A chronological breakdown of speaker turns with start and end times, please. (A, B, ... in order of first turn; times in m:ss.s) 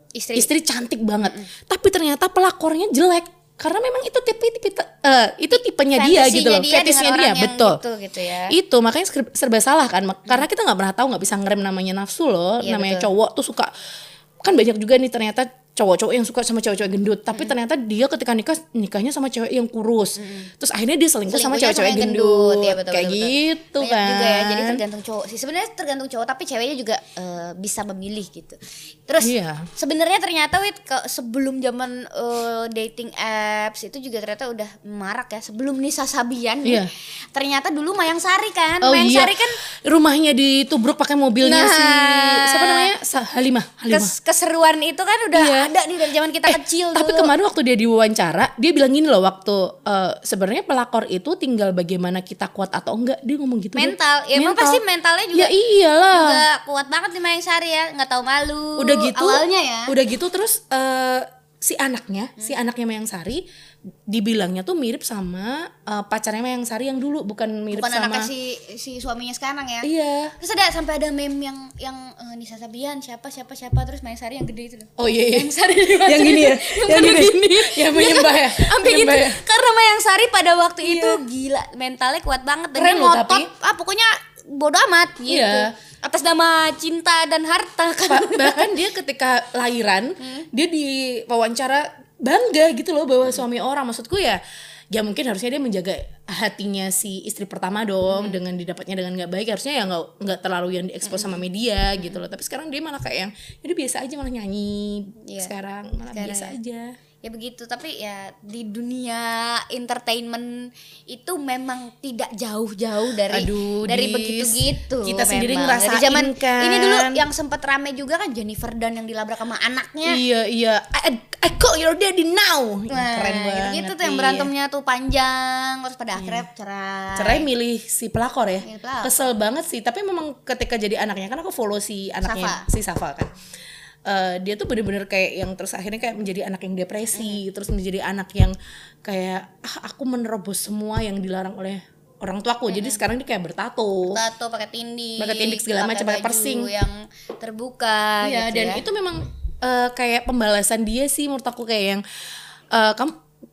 0:00.2-0:00.5 A
0:00.4-0:07.8 B
0:01.2-0:01.5 A
0:05.6-0:08.6 A
0:08.5-0:13.7 B
0:12.6-0:13.1 A
0:14.4-0:24.8 B
0:20.2-0:20.5 A
0:21.3-0:39.6 A
0:29.2-0:29.7 B
0:36.6-0:36.9 B
0:38.8-0:44.1 B
0:41.4-0:42.9 A
0:43.9-0:47.3 A
0:45.3-0:45.7 B
0:46.5-0:54.8 B
0:53.8-0:55.5 A
0:55.3-0:56.4 B
0:56.1-1:00.0 A
0:58.8-1:03.4 B
1:04.1-1:08.3 B
1:07.7-1:09.9 A
1:09.8-1:10.4 B
1:10.4-1:28.7 A
1:15.0-1:19.4 B
1:20.8-1:21.2 B
1:22.8-1:23.5 B
1:25.3-1:25.7 B
1:28.1-1:47.0 B
1:30.2-1:30.5 A
1:38.1-1:38.4 A
1:41.0-1:41.3 A
1:45.2-1:45.5 A
1:46.1-1:46.6 A
1:47.2-2:00.2 A
1:53.3-1:57.2 B
2:00.1-2:04.5 B
2:02.9-2:07.5 A
2:06.2-2:06.4 B
2:07.2-2:13.3 B
2:08.6-2:09.2 A
2:12.2-2:12.7 A
2:14.1-2:24.2 B
2:17.1-2:17.4 A
2:22.7-2:23.0 A
2:24.0-2:28.8 A
2:25.2-2:26.7 B
2:28.2-2:32.0 B
2:32.7-2:33.2 B